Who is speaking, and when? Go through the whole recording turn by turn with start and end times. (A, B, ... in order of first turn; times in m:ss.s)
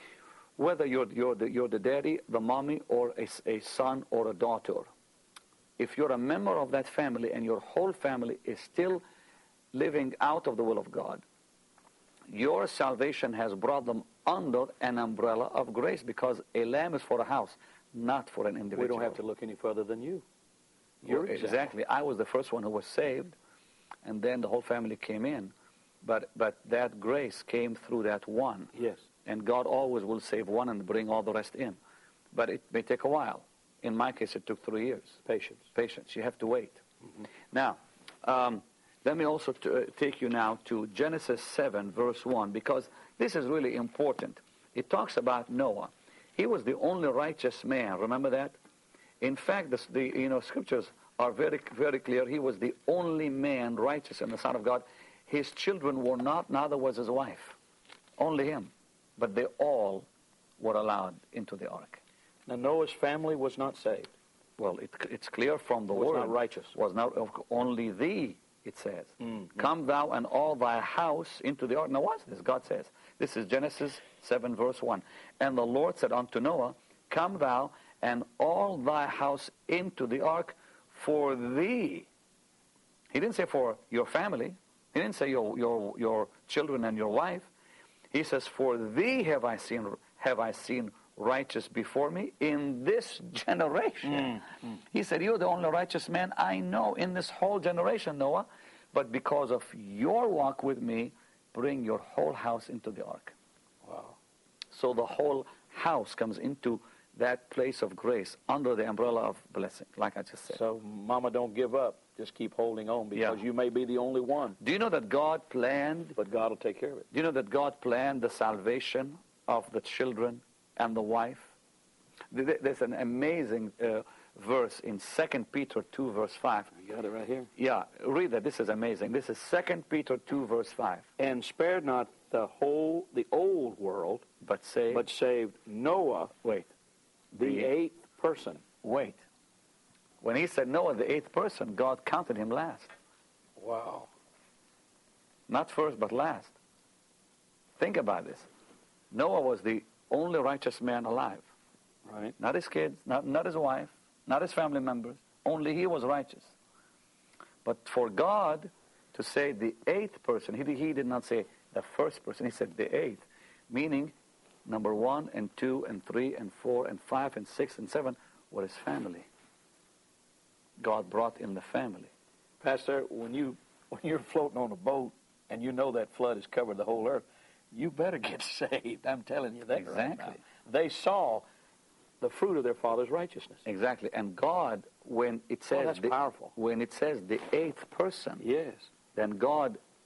0:00.6-0:04.9 A
0:05.8-0:09.0 A
0:09.7-0:11.2 A
0:12.3-0:19.2 A
0:18.7-0:20.2 B
0:21.0-0:21.7 B
0:21.0-0:23.4 A
0:24.0-0:25.5 A
0:26.0-0:28.7 A
0:28.7-0:29.0 B
0:29.2-0:31.8 A
0:32.3-0:35.2 A
0:35.2-0:35.6 B
0:35.7-0:36.8 A
0:37.5-0:48.6 A
0:49.2-0:57.6 A
0:58.2-1:00.1 A
1:00.6-1:02.0 A
1:02.5-1:04.1 B
1:04.6-1:22.1 A
1:05.9-1:06.7 B
1:23.1-1:27.5 A
1:28.1-1:43.3 A
1:34.0-1:34.4 B
1:43.8-1:44.2 B
1:44.7-1:50.6 A
1:50.5-1:54.6 B
1:53.1-1:53.4 A
1:54.6-1:56.2 A
1:56.2-1:57.1 B
1:57.1-2:01.5 A
2:02.3-2:06.7 A
2:06.7-2:07.5 B
2:07.6-2:11.1 A
2:11.2-2:14.2 B
2:14.4-2:15.1 A
2:14.9-2:16.5 B
2:17.3-2:18.6 B
2:17.4-2:17.7 A
2:18.8-2:19.2 A
2:20.2-2:22.9 A
2:23.6-2:24.1 B
2:25.5-2:26.5 A
2:27.8-2:28.5 A
2:29.1-2:31.5 A
2:32.0-2:32.3 B
2:32.4-2:36.5 A
2:37.6-2:44.1 A
2:44.6-2:49.3 A
2:50.8-2:52.1 A
2:52.6-3:01.4 B
2:59.7-3:00.4 A
3:02.2-3:03.6 B
3:03.6-3:08.4 A
3:05.7-3:06.5 B
3:08.4-3:08.9 B
3:09.1-3:09.8 A